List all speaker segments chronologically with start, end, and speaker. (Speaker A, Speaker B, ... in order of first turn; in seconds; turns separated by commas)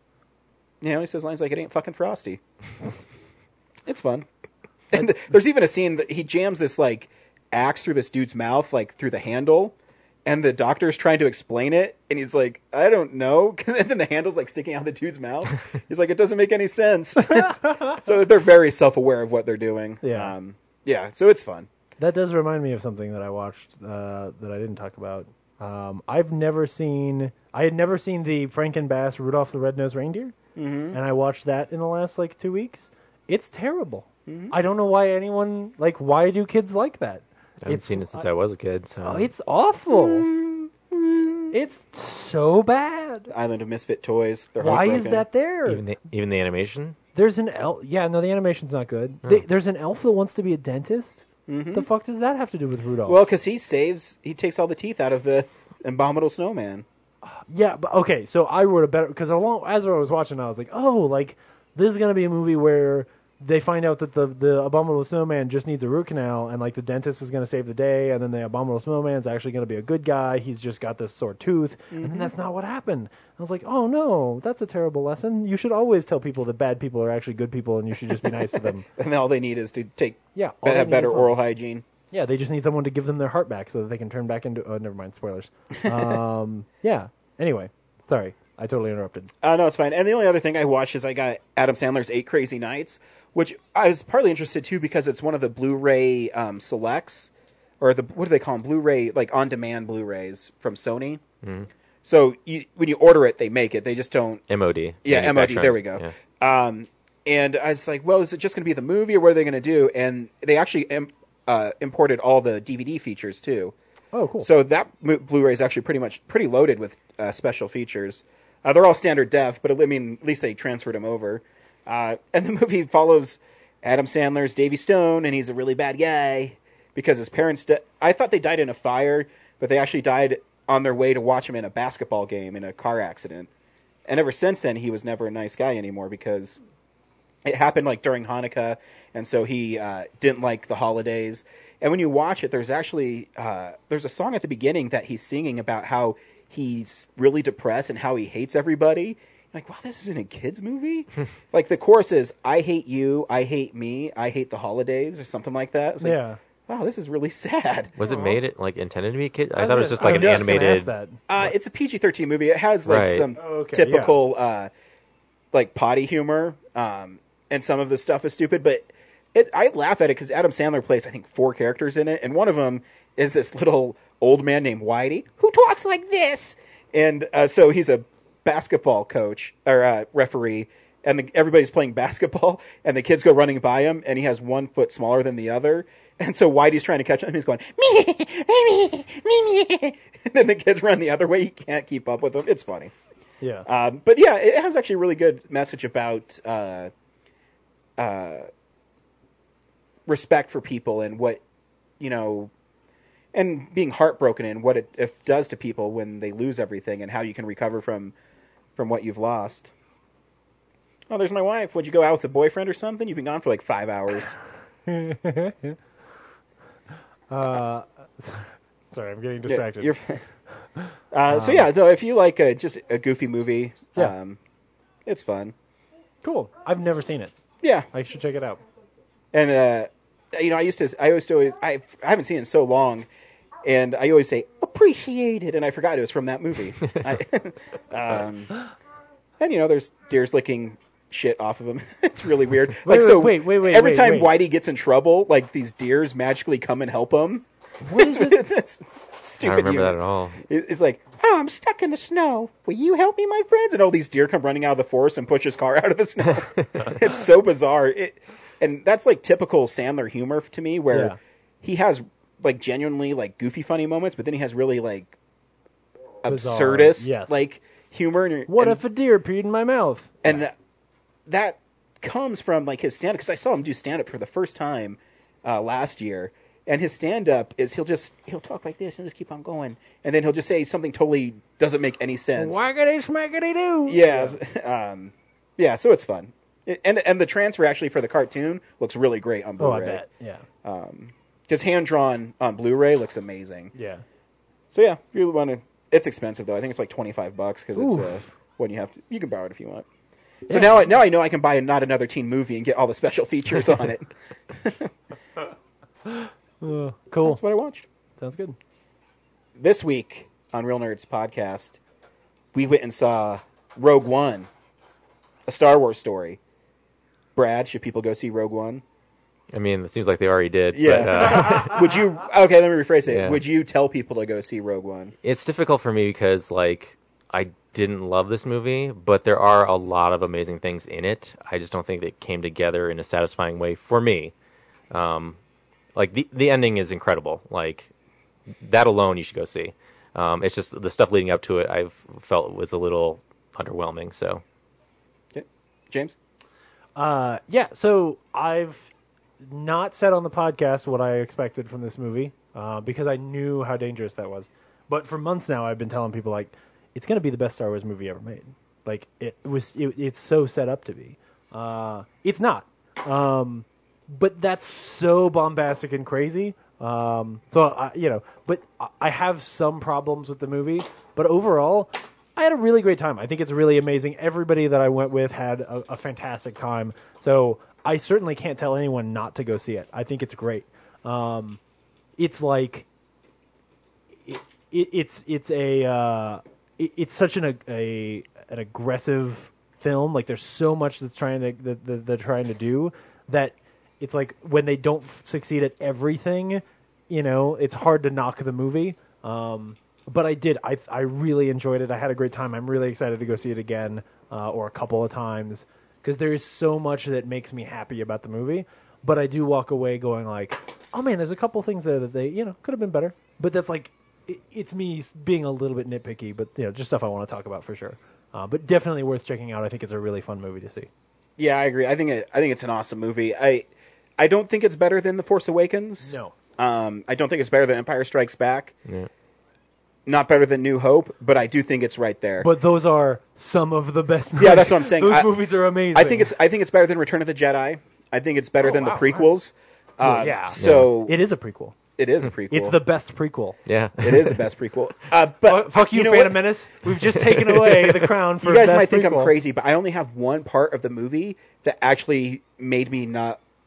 Speaker A: 0.8-2.4, Speaker A: 3.9-4.2, Speaker A: 4.9-9.7, Speaker A: 10.2-21.7, Speaker B: 17.4-17.9, Speaker B: 20.0-20.3, Speaker B: 22.0-30.4, Speaker A: 30.6-31.0, Speaker B: 30.9-38.2, Speaker A: 34.3-34.5, Speaker C: 37.6-39.3, Speaker B: 39.0-40.3, Speaker A: 39.9-41.5, Speaker B: 41.5-43.3, Speaker A: 43.3-45.2, Speaker B: 44.6-45.8, Speaker C: 45.6-47.0, Speaker B: 47.1-53.2, Speaker A: 51.5-51.9, Speaker A: 53.0-56.8, Speaker B: 57.2-78.8, Speaker A: 71.9-72.3, Speaker A: 78.2-81.8, Speaker B: 80.3-81.3, Speaker B: 82.1-89.3, Speaker A: 85.8-86.2, Speaker A: 89.4-101.2, Speaker C: 101.4-101.7, Speaker A: 102.0-104.4, Speaker C: 104.5-106.1, Speaker A: 105.0-113.7, Speaker B: 114.1-114.5, Speaker A: 114.4-133.5, Speaker A: 134.1-136.6, Speaker A: 137.4-157.9, Speaker B: 156.0-156.4, Speaker C: 158.0-160.9, Speaker B: 158.0-158.4, Speaker B: 159.6-161.2, Speaker A: 160.0-160.5, Speaker A: 161.3-164.7, Speaker C: 162.8-163.3, Speaker B: 163.3-164.1, Speaker A: 165.5-192.9, Speaker B: 193.4-193.7, Speaker A: 193.7-196.9, Speaker A: 198.0-198.5, Speaker A: 200.1-201.4, Speaker A: 202.0-202.5, Speaker A: 203.3-208.1, Speaker A: 208.8-209.7, Speaker A: 211.1-214.3, Speaker B: 214.9-215.8, Speaker B: 217.3-219.9, Speaker A: 219.5-220.2, Speaker B: 220.8-221.7, Speaker A: 221.1-224.4, Speaker A: 225.1-225.5, Speaker B: 226.2-227.3, Speaker A: 227.6-227.9, Speaker B: 227.9-228.6, Speaker A: 229.3-233.1, Speaker A: 233.6-238.5, Speaker A: 239.4-265.1, Speaker B: 242.8-244.3, Speaker B: 247.8-248.4, Speaker C: 249.4-250.4, Speaker B: 260.9-261.1, Speaker A: 266.2-268.8, Speaker B: 266.2-267.4, Speaker B: 268.5-270.4, Speaker A: 270.2-270.5, Speaker A: 271.3-282.6, Speaker B: 282.4-284.4, Speaker A: 283.9-290.0, Speaker B: 289.6-290.4, Speaker A: 290.6-293.7, Speaker B: 293.7-294.0, Speaker A: 294.7-299.8, Speaker B: 297.8-298.3, Speaker A: 300.5-304.9, Speaker B: 300.5-300.9, Speaker B: 306.1-307.4, Speaker A: 307.2-307.8, Speaker B: 308.2-308.6, Speaker A: 309.6-311.8, Speaker A: 312.5-314.5, Speaker A: 315.5-316.4, Speaker A: 317.3-318.8, Speaker C: 319.5-322.0, Speaker A: 320.7-325.1, Speaker C: 323.1-323.4, Speaker C: 325.2-334.3, Speaker C: 334.9-335.4, Speaker C: 335.9-337.9, Speaker C: 338.6-344.4, Speaker A: 345.3-346.1, Speaker B: 346.9-348.9, Speaker B: 349.4-381.6, Speaker B: 382.2-382.9, Speaker B: 384.2-420.9, Speaker A: 421.4-423.7, Speaker A: 424.2-428.7, Speaker B: 426.0-426.3, Speaker A: 430.1-432.5, Speaker B: 432.4-436.3, Speaker A: 434.4-441.2, Speaker B: 438.6-439.3, Speaker B: 440.0-441.7, Speaker C: 440.6-440.9, Speaker A: 442.0-442.8, Speaker B: 442.5-443.6, Speaker C: 443.6-444.4, Speaker A: 444.0-446.5, Speaker B: 445.4-449.3, Speaker C: 447.2-447.9, Speaker A: 448.4-453.4